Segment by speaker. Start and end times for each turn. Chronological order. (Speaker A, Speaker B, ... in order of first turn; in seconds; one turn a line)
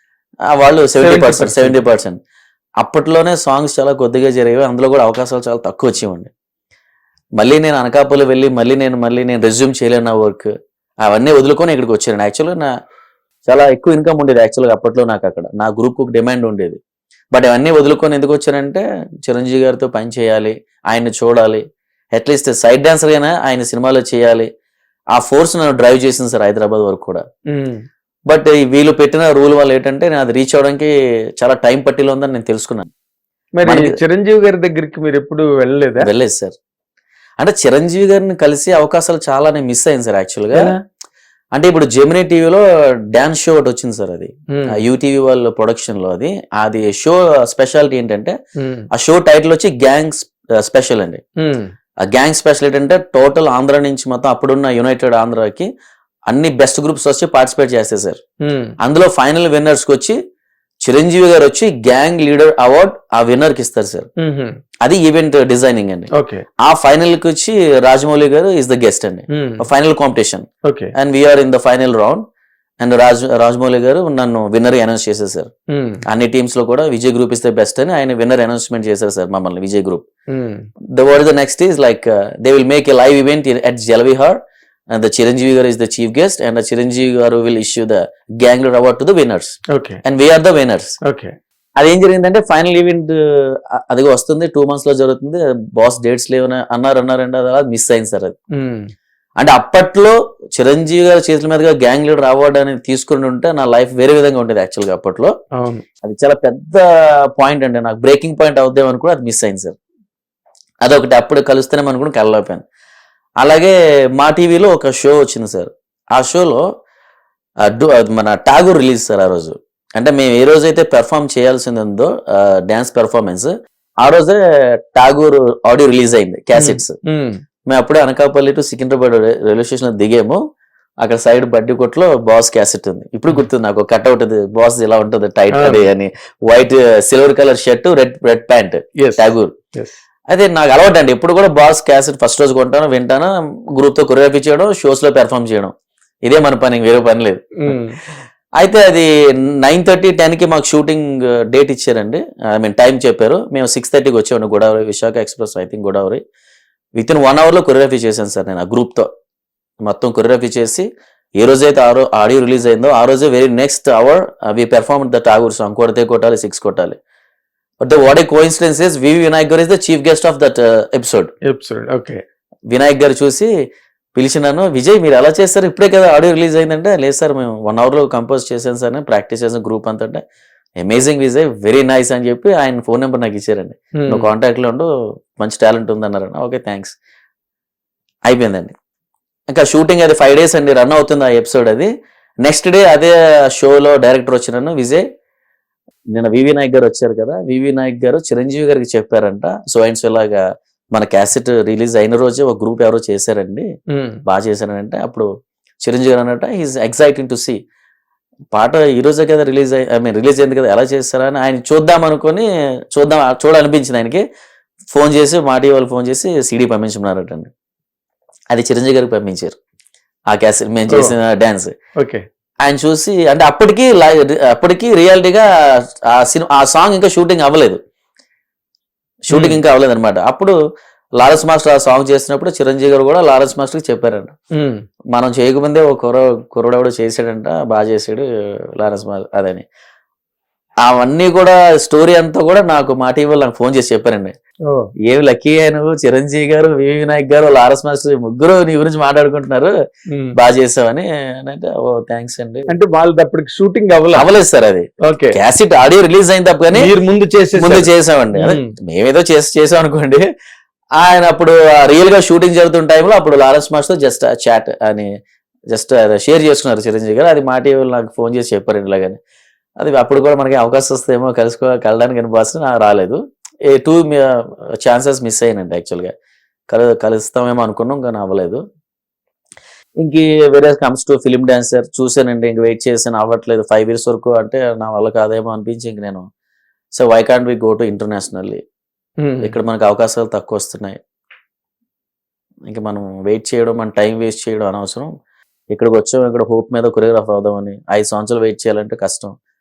Speaker A: 0.5-2.2
Speaker B: 1.0-1.8
Speaker A: 2.8-6.3
Speaker A: 7.4-10.5
Speaker A: 11.1-12.7
Speaker A: 13.5-16.8
Speaker A: 17.3-21.6
Speaker A: 22.1-24.5
Speaker A: 25.1-27.2
Speaker B: 27.5-27.8
Speaker A: 28.3-32.9
Speaker B: 33.6-36.1
Speaker A: 33.6-34.0
Speaker A: 36.0-36.6
Speaker A: 37.4-40.7
Speaker B: 40.5-40.8
Speaker A: 41.5-48.4
Speaker B: 44.5-44.8
Speaker B: 48.6-48.9
Speaker A: 48.9-51.2
Speaker B: 51.4-51.7
Speaker A: 52.0-55.7
Speaker A: 56.3-58.2
Speaker B: 58.4-58.8
Speaker A: 58.8-60.2
Speaker A: 60.9-64.1
Speaker B: 64.2-64.5
Speaker A: 64.8-66.1
Speaker B: 66.1-66.5
Speaker A: 66.6-72.2
Speaker B: 69.3-69.6
Speaker B: 70.7-70.9
Speaker A: 72.8-75.5
Speaker B: 75.7-76.0
Speaker A: 76.1-80.0
Speaker B: 80.3-80.7
Speaker A: 81.0-84.4
Speaker A: 84.9-91.0
Speaker B: 89.7-90.0
Speaker B: 91.0-91.3
Speaker A: 91.8-98.4
Speaker B: 98.5-98.9
Speaker A: 99.4-105.3
Speaker B: 105.5-105.8
Speaker A: 106.0-109.8
Speaker A: 110.8-112.6
Speaker A: 113.4-116.6
Speaker A: 117.7-123.5
Speaker A: 124.0-126.9
Speaker B: 126.5-127.4
Speaker A: 127.7-130.4
Speaker A: 131.0-139.5
Speaker B: 135.5-135.8
Speaker B: 139.0-139.9
Speaker A: 140.3-145.7
Speaker A: 146.3-147.8
Speaker B: 147.6-148.0
Speaker A: 148.6-156.2
Speaker A: 157.0-159.1
Speaker A: 159.8-160.9
Speaker A: 161.4-167.0
Speaker A: 167.8-171.3
Speaker B: 171.5-172.2
Speaker A: 172.7-173.5
Speaker A: 174.2-180.2
Speaker A: 180.8-186.9
Speaker B: 184.0-184.3
Speaker A: 188.3-188.7
Speaker A: 189.5-191.9
Speaker A: 192.4-195.0
Speaker A: 196.1-200.4
Speaker A: 200.9-203.7
Speaker B: 203.9-204.2
Speaker A: 204.3-205.3
Speaker A: 205.8-207.6
Speaker A: 208.5-214.2
Speaker A: 214.9-217.5
Speaker A: 218.5-219.6
Speaker A: 220.3-221.7
Speaker B: 220.9-221.1
Speaker B: 222.0-222.2
Speaker A: 222.7-227.8
Speaker A: 229.3-230.6
Speaker B: 229.3-229.6
Speaker A: 231.2-234.3
Speaker B: 234.6-234.8
Speaker A: 235.1-239.7
Speaker A: 240.8-244.3
Speaker B: 244.7-244.9
Speaker A: 245.1-249.7
Speaker B: 250.1-250.3
Speaker A: 250.4-252.7
Speaker B: 252.7-254.3
Speaker A: 254.1-256.9
Speaker B: 255.0-255.4
Speaker B: 256.7-258.7
Speaker A: 257.6-260.2
Speaker A: 261.0-265.1
Speaker A: 265.7-269.2
Speaker A: 269.8-276.1
Speaker A: 276.7-278.6
Speaker A: 280.0-286.2
Speaker A: 287.0-288.6
Speaker B: 289.2-289.5
Speaker A: 289.4-291.0
Speaker A: 292.7-295.1
Speaker A: 295.7-299.3